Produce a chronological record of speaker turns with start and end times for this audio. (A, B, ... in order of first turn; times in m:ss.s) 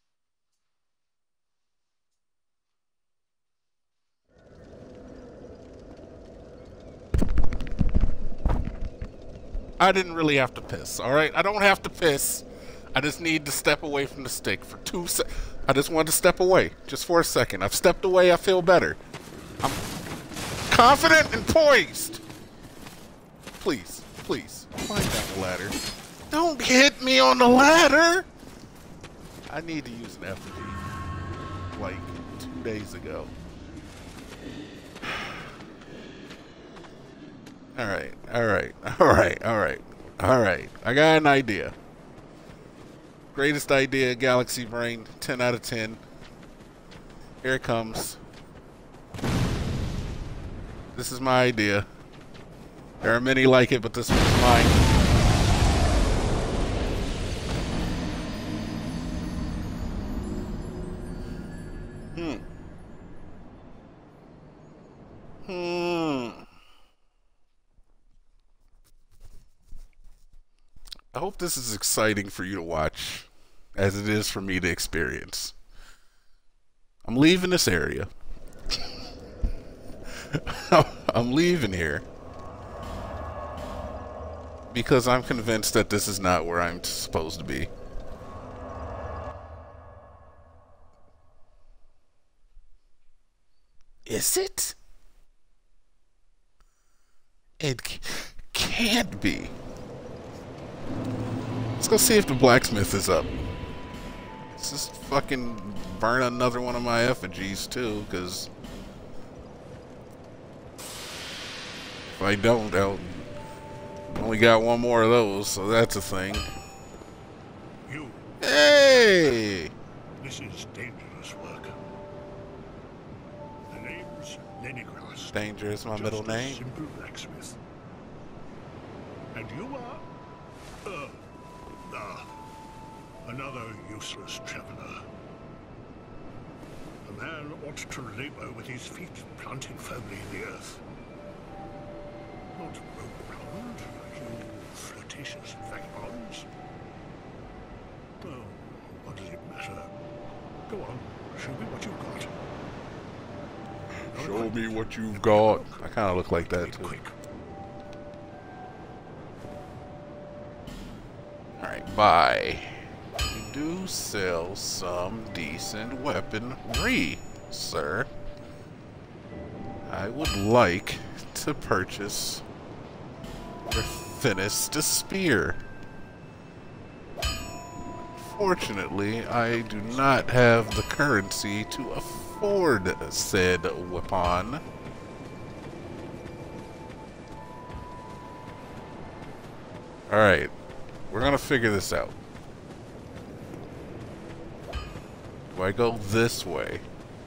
0:09.8-0:19.0 A
0:20.7-0:22.2 A
0:23.6-0:25.8 A
0:26.3-0:28.3 A
0:29.5-0:30.8 A
0:31.7-0:33.3 A
0:37.8-0:41.7 A
0:43.3-0:46.0 A
0:47.4-0:48.2 A
0:50.9-0:51.9 A
0:53.0-0:54.9 A
1:02.1-1:02.4 A
1:05.4-1:06.4 A
1:11.1-1:15.6 A
1:17.0-1:18.1 A
1:20.2-1:22.0 A
1:24.7-1:27.7 A
1:34.0-1:34.8 A
1:37.6-1:39.6 A
1:41.8-1:43.3 A
1:44.5-1:48.5 A
1:52.1-1:53.3 A
1:54.1-1:56.5 A
1:57.9-1:58.3 B
1:58.4-1:59.7 A
1:59.0-1:59.4 B
2:00.2-2:01.8 B
2:03.7-2:05.4 B
2:05.3-2:06.6 A
2:05.9-2:07.6 B
2:09.3-2:10.1 B
2:10.8-2:11.2 B
2:11.8-2:12.3 B
2:13.2-2:15.0 B
2:17.0-2:20.8 B
2:22.5-2:26.5 B
2:28.2-2:29.9 B
2:30.7-2:32.3 B
2:34.1-2:37.0 A
2:34.1-2:37.1 B
2:41.6-2:48.1 A
2:49.9-2:52.4 A
2:53.7-2:55.6 A
2:58.2-3:04.6 A
3:10.1-3:10.5 A
3:11.1-3:12.2 A
3:15.5-3:16.8 A